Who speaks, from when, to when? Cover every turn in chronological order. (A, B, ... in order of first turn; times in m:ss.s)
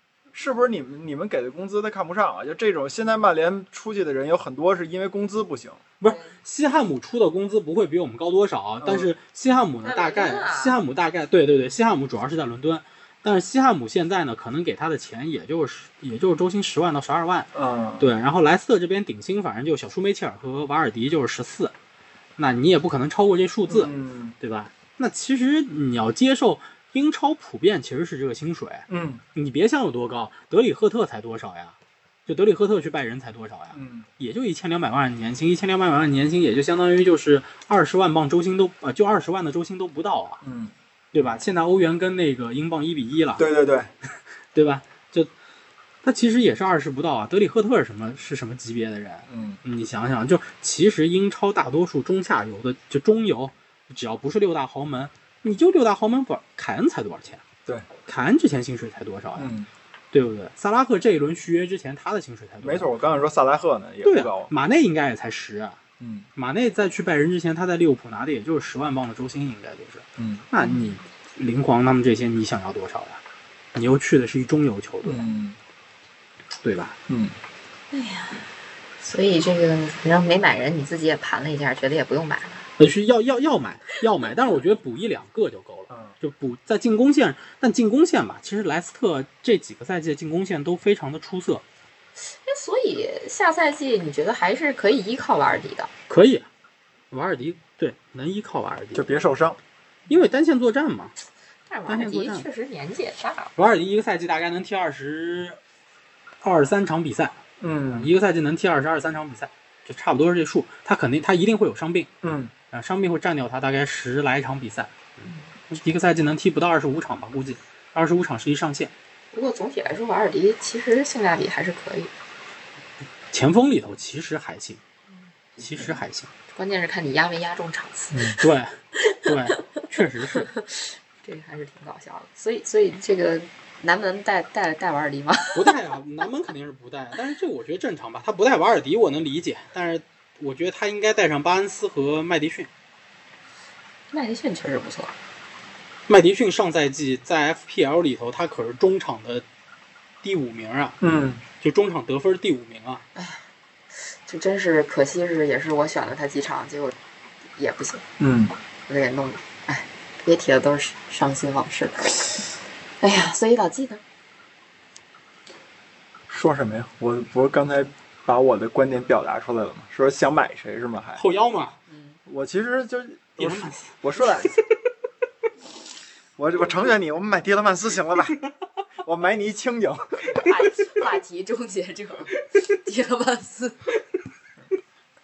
0:00.3-0:05.8 A
0:06.0-0:21.8 B
0:06.0-0:06.3 C
0:08.8-0:09.1 A
0:09.8-0:10.8 C
0:17.6-0:18.1 A
0:22.4-0:40.4 B
0:23.7-0:24.4 A
0:28.9-0:29.2 A
0:33.7-0:34.1 A
0:40.4-0:40.7 A
0:41.1-0:43.5 B
0:43.4-0:43.9 A
0:44.5-0:45.3 B
0:46.0-0:57.4 B
0:49.3-0:49.6 A
0:58.1-0:59.5 B
0:59.4-0:59.7 A
1:00.1-1:02.9 B
1:02.6-1:04.5 A
1:04.0-1:05.8 B
1:06.0-1:06.3 A
1:06.4-1:13.2 B
1:10.2-1:10.4 A
1:10.6-1:10.9 C
1:13.7-1:15.3 B
1:15.0-1:15.6 A
1:16.6-1:17.0 B
1:17.1-1:17.4 A
1:17.9-1:18.5 C
1:19.0-1:22.6 C
1:22.8-1:31.6 B
1:32.3-1:35.9 C
1:36.1-1:36.5 B
1:37.1-1:39.1 B
1:38.9-1:39.6 A
1:40.1-1:41.2 B
1:41.7-1:43.5 C
1:41.9-1:42.5 B
1:43.6-1:45.6 B
1:46.4-1:47.4 B
1:47.6-1:48.1 A
1:47.9-1:52.1 B
1:52.2-1:52.5 A
1:52.7-1:55.0 B
1:55.7-1:58.9 B
1:59.3-2:02.1 C
2:03.3-2:04.8 B
2:05.6-2:06.3 B
2:06.5-2:08.4 C
2:08.1-2:08.4 A
2:08.4-2:10.5 B
2:09.0-2:15.8 C
2:15.5-2:22.7 B
2:24.1-2:25.1 C
2:26.1-2:29.4 B
2:30.2-2:31.0 B
2:31.0-2:31.4 A
2:31.6-2:33.0 B
2:33.2-2:33.4 C
2:34.1-2:37.0 C
2:37.6-2:38.0 C
2:38.2-2:38.5 A
2:38.9-2:44.0 C
2:46.3-2:51.2 A
2:51.2-2:51.8 B
2:51.9-2:52.2 C
2:52.3-2:54.6 A
2:53.4-2:53.9 B
2:56.4-2:58.4 A
2:59.0-3:00.4 A
3:00.2-3:03.8 C